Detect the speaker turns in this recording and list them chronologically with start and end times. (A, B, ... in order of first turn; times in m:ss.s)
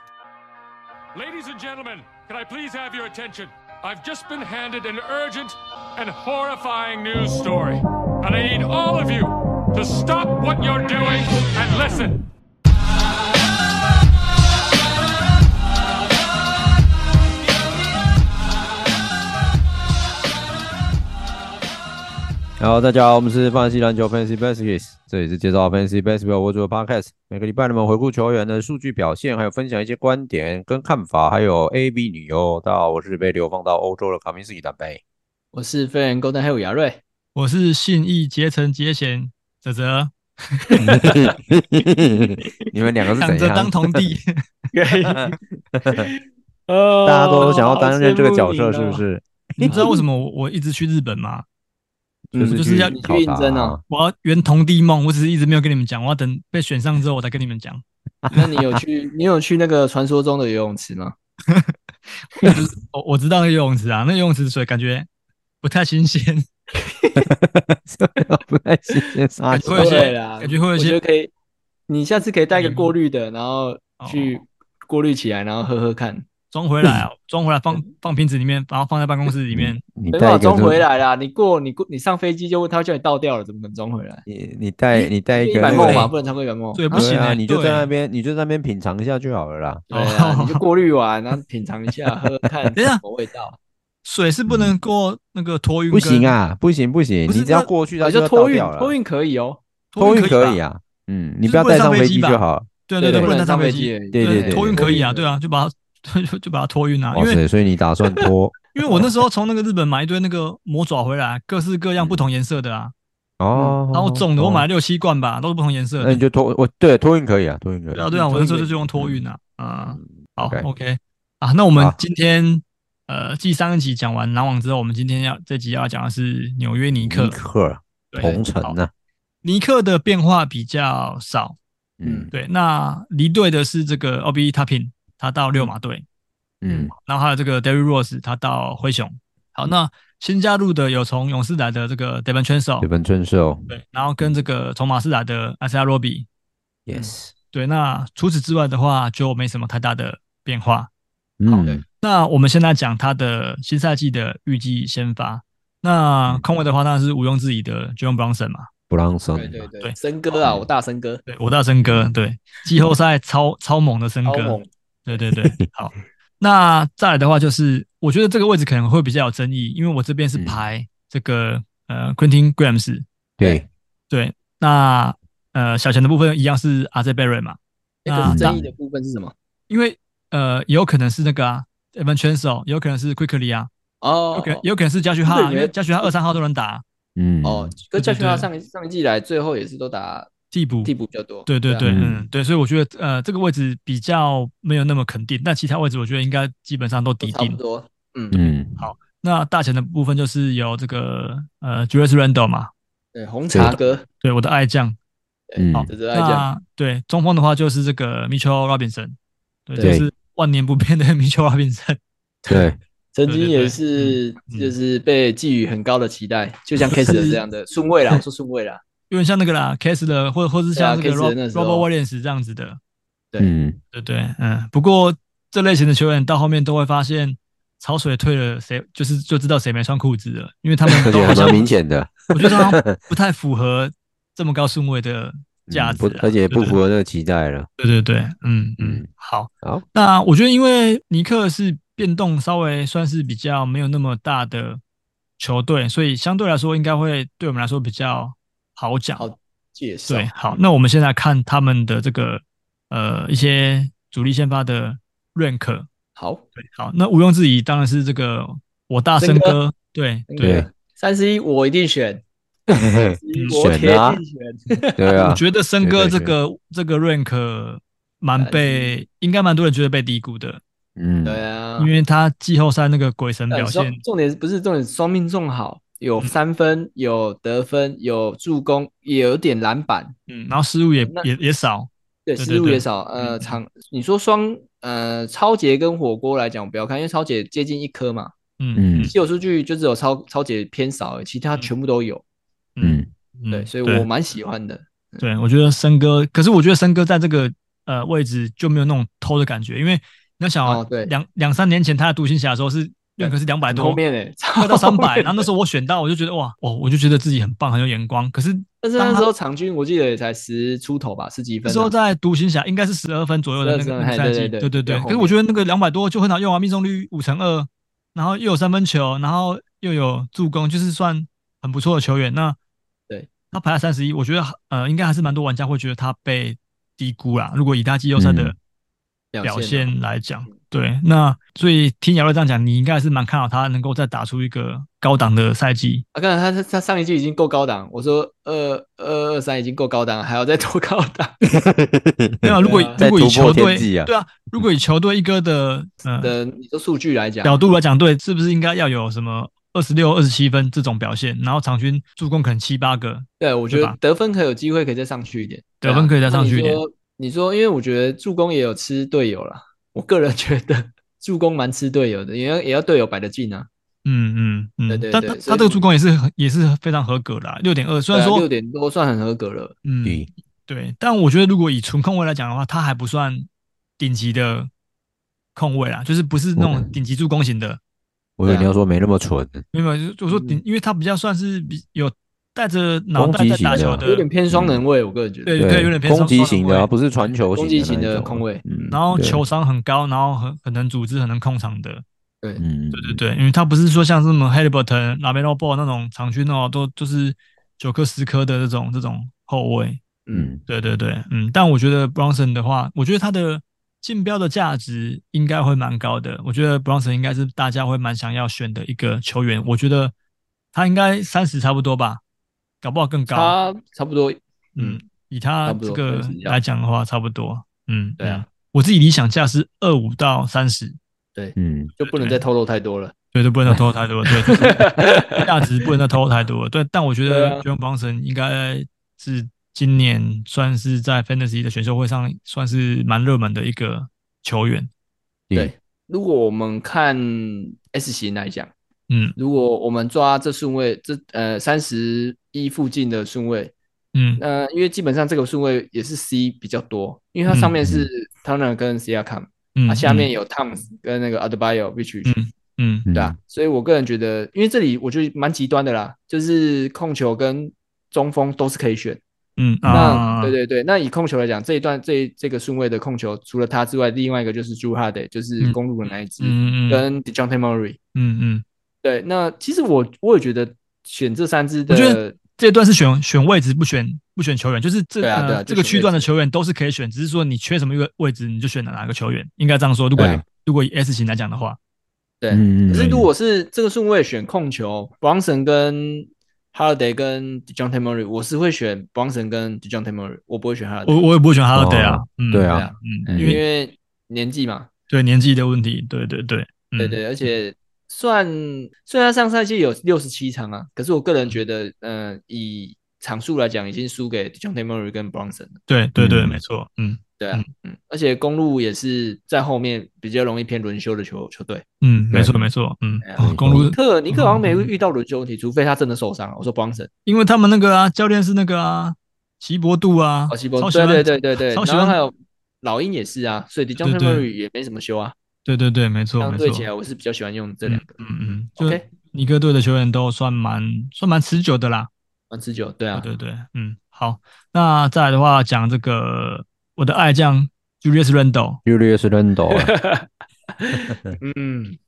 0:01.1-0:12.2 A
0:22.6-0:35.0 B
0:35.5-0:37.0 C
0:37.4-0:41.0 D
0:40.8-0:41.3 C
0:40.8-0:44.1 B
0:43.2-0:44.4 D
0:44.7-0:45.4 C
0:45.1-0:46.1 B
0:45.9-0:49.0 C
0:47.0-0:49.9 B
0:49.6-0:51.4 D
0:49.6-0:50.0 C
0:52.3-0:53.8 B
0:52.4-0:53.8 C
0:52.4-0:53.0 D
0:53.9-0:57.8 D
0:58.3-1:01.1 C
1:02.4-1:05.1 D
1:05.6-1:06.5 D
1:06.8-1:07.2 C
1:07.2-1:10.1 B
1:09.5-1:11.0 D
1:09.7-1:11.3 C
1:11.9-1:16.2 C
1:12.5-1:12.9 D
1:14.0-1:14.4 D
1:16.5-1:19.8 D
1:19.5-1:20.8 B
1:20.1-1:24.2 C
1:24.3-1:26.1 B
1:24.9-1:27.0 C
1:25.7-1:26.1 D
1:26.8-1:27.9 D
1:26.9-1:29.8 B
1:29.9-1:33.6 C
1:29.9-1:30.6 D
1:32.8-1:33.0 D
1:34.0-1:36.3 D
1:34.5-1:34.7 B
1:35.9-1:39.0 B
1:37.3-1:37.7 D
1:38.0-1:39.6 C
1:39.9-1:40.6 D
1:40.0-1:43.3 B
1:41.5-1:47.4 D
1:43.0-1:45.3 C
1:44.1-1:44.9 B
1:47.1-1:49.1 B
1:48.7-1:52.9 D
1:53.4-1:54.7 B
1:53.9-1:56.2 D
1:56.0-1:59.2 B
1:57.9-2:07.4 D
1:59.9-2:00.7 B
2:07.0-2:08.9 B
2:08.1-2:08.8 D
2:09.4-2:11.6 D
2:12.0-2:12.3 B
2:12.0-2:12.3 C
2:12.3-2:16.0 D
2:16.6-2:16.9 B
2:17.0-2:22.9 D
2:22.8-2:23.7 B
2:23.7-2:26.3 D
2:26.9-2:27.3 B
2:27.5-2:30.9 D
2:31.4-2:31.8 B
2:31.5-2:31.8 C
2:32.0-2:38.7 D
2:38.9-2:39.7 B
2:39.4-2:41.2 C
2:40.4-2:40.7 B
2:41.3-2:53.0 D
2:41.8-2:42.2 B
2:44.2-2:45.2 C
2:50.4-2:50.7 B
2:53.4-2:53.7 B
2:54.1-2:58.6 D
2:58.0-2:59.3 C
2:58.3-2:58.7 B
2:59.7-3:03.7 D
3:04.0-3:04.6 C
3:04.3-3:06.8 D
3:05.3-3:06.1 C
3:07.2-3:07.7 B
3:07.4-3:10.3 C
3:08.0-3:08.5 D
3:10.5-3:10.9 D
3:10.8-3:11.9 C
3:11.5-3:17.6 D
3:11.9-3:12.3 B
3:17.2-3:18.5 C
3:18.3-3:18.9 B
3:18.8-3:22.7 D
3:23.2-3:24.0 C
3:23.5-3:23.8 B
3:24.2-3:25.0 D
3:25.5-3:26.5 C
3:25.6-3:25.9 B
3:25.8-3:32.0 D
3:29.8-3:30.1 B
3:32.5-3:32.8 B
3:33.1-3:38.8 C
3:33.3-3:34.8 D
3:39.1-3:42.8 D
3:40.8-3:41.9 C
3:43.4-3:43.8 B
3:43.9-3:51.6 D
3:51.0-3:53.0 B
3:51.2-3:51.6 C
3:52.3-3:56.8 D
3:55.7-3:57.7 B
3:57.8-4:04.8 D
3:58.8-3:59.1 B
4:05.4-4:09.3 D
4:09.2-4:10.3 C
4:10.1-4:15.9 D
4:16.2-4:16.4 C
4:16.6-4:20.6 D
4:19.2-4:19.6 C
4:20.3-4:22.2 C
4:20.4-4:20.7 B
4:22.7-4:24.2 B
4:23.0-4:25.3 C
4:23.3-4:23.6 D
4:25.0-4:26.3 B
4:25.2-4:30.6 D
4:28.4-4:29.0 C
4:31.0-4:31.4 B
4:31.2-4:31.9 C
4:31.8-4:34.0 D
4:33.5-4:40.2 C
4:40.3-4:43.6 D
4:41.0-4:41.3 C
4:42.3-4:48.3 C
4:48.6-4:49.1 D
4:48.8-4:49.1 B
4:49.1-4:52.2 C
4:52.8-4:54.1 D
4:52.8-4:53.1 B
4:53.5-4:55.2 C
4:55.2-5:04.0 D
5:00.6-5:01.1 C
5:03.2-5:05.5 C
5:04.6-5:09.3 D
5:08.8-5:11.9 C
5:11.6-5:22.6 D
5:13.6-5:15.4 C
5:23.5-5:28.6 D
5:28.2-5:28.6 B
5:29.3-5:29.9 C
5:29.4-5:36.0 D
5:36.1-5:41.4 C
5:41.5-5:44.7 B
5:42.4-5:46.3 D
5:42.6-5:43.0 C
5:46.2-5:47.6 C
5:47.4-5:54.0 D
5:53.4-6:03.7 C
5:55.8-5:56.8 D
6:04.0-6:08.5 D
6:04.9-6:05.9 C
6:08.1-6:09.8 C
6:09.8-6:13.5 D
6:14.0-6:14.7 D
6:15.6-6:17.8 D
6:16.6-6:16.9 B
6:18.4-6:19.6 B
6:18.4-6:18.7 C
6:19.7-6:24.3 D
6:20.3-6:20.6 C
6:23.2-6:24.8 B
6:23.7-6:25.6 C
6:25.5-6:27.3 D
6:25.6-6:29.4 B
6:27.6-6:28.6 C
6:28.9-6:32.0 D
6:32.6-6:33.2 B
6:32.9-6:40.0 D
6:40.3-6:40.6 B
6:40.7-6:50.1 D
6:50.7-6:52.2 D
6:52.8-6:53.6 D
6:53.3-6:55.0 C
6:54.8-7:01.0 D
6:55.6-6:56.6 C
6:58.2-6:58.4 C
7:01.4-7:03.1 C
7:01.6-7:01.9 B
7:02.0-7:02.4 D
7:03.3-7:14.9 D
7:04.3-7:05.9 C
7:07.2-7:07.6 C
7:15.5-7:18.7 C
7:19.1-7:19.3 D
7:19.4-7:23.7 C
7:24.1-7:24.4 D
7:24.4-7:32.4 C
7:29.8-7:30.3 D
7:32.2-7:33.1 D
7:33.1-7:33.4 B
7:33.1-7:39.2 C
7:39.6-7:40.6 D
7:39.8-7:40.2 B
7:39.9-7:48.0 C
7:46.4-7:47.0 D
7:48.2-7:48.6 D
7:49.0-7:52.4 C
7:51.9-8:01.8 D
7:55.2-7:56.3 C
8:00.1-8:00.4 C
8:00.2-8:00.4 B
8:02.4-8:11.2 C
8:02.5-8:03.3 B
8:11.1-8:13.6 D
8:11.7-8:13.6 B
8:12.6-8:14.9 C
8:15.1-8:17.2 D
8:17.0-8:25.8 C
8:25.9-8:27.7 D
8:26.2-8:26.6 B
8:27.4-8:31.8 C
8:32.0-8:34.9 D
8:32.3-8:32.7 B
8:33.2-8:37.1 C
8:33.4-8:33.8 B
8:37.3-8:42.2 D
8:40.5-8:45.3 C
8:44.0-8:44.5 D
8:45.7-8:46.9 D
8:46.4-8:48.2 C
8:47.9-8:52.1 D
8:48.8-8:49.0 C
8:52.5-8:53.3 C
8:53.1-8:58.8 D
8:58.8-8:59.9 B
8:59.7-9:02.0 C